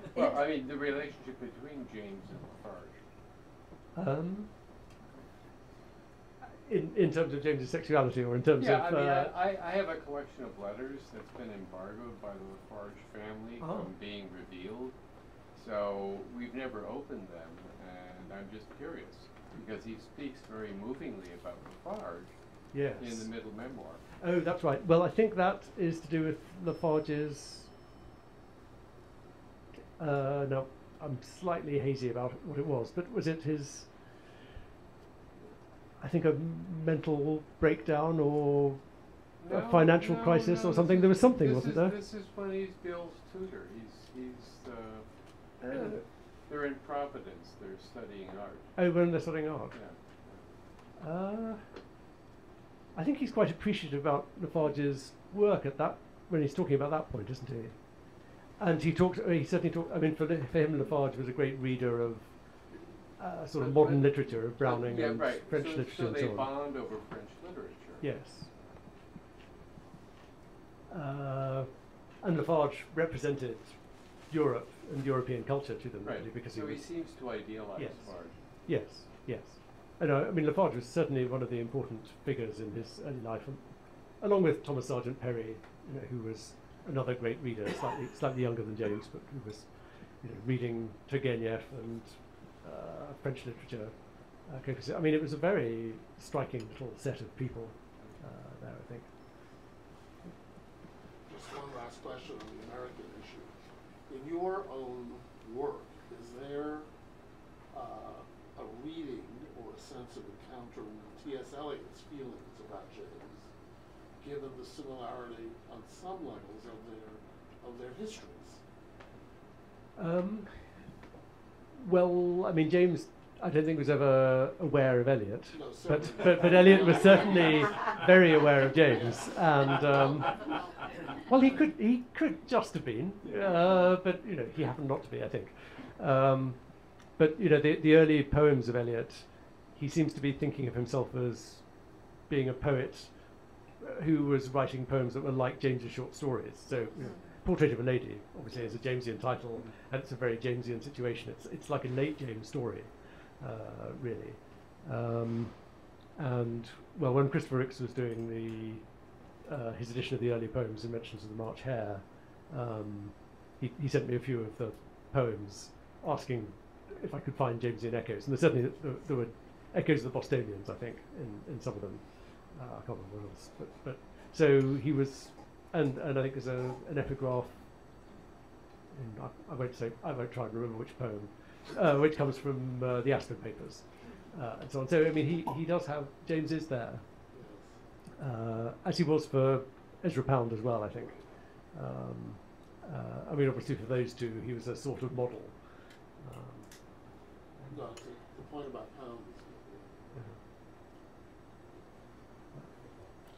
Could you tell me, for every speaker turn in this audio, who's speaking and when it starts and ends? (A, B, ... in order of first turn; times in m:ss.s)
0:00.1-0:03.0 A
0:03.9-0:04.5 B
0:06.6-0:09.4 B
0:08.6-0:14.9 A
0:13.6-0:13.9 B
0:15.5-0:22.3 A
0:22.7-0:23.3 B
0:22.9-0:24.0 A
0:24.2-0:27.7 B
0:30.0-0:33.9 B
0:36.0-0:38.8 B
0:39.4-0:45.0 A
0:39.4-0:42.0 B
0:45.6-0:46.0 B
0:45.6-0:48.8 A
0:48.8-0:49.8 B
0:49.7-0:50.4 A
0:51.0-0:51.6 B
0:52.9-0:58.0 B
0:58.6-1:02.5 B
1:03.2-1:06.5 B
1:03.6-1:08.1 A
1:08.0-1:08.5 B
1:10.9-1:11.7 B
1:12.2-1:16.9 B
1:16.0-1:18.4 A
1:17.7-1:23.6 B
1:24.2-1:33.9 B
1:34.4-1:39.1 B
1:41.3-1:43.5 C
1:44.1-1:46.9 C
1:47.7-1:53.5 C
1:54.2-1:58.6 C
2:00.0-2:00.8 B
2:01.8-2:10.6 B
2:05.5-2:07.2 C
2:11.2-2:23.3 B
2:23.8-2:38.8 B
2:39.4-2:57.6 B
2:58.9-3:07.0 B
3:07.3-3:07.7 C
3:08.2-3:11.2 B
3:11.7-3:15.6 B
3:16.2-3:16.7 B
3:17.7-3:19.9 C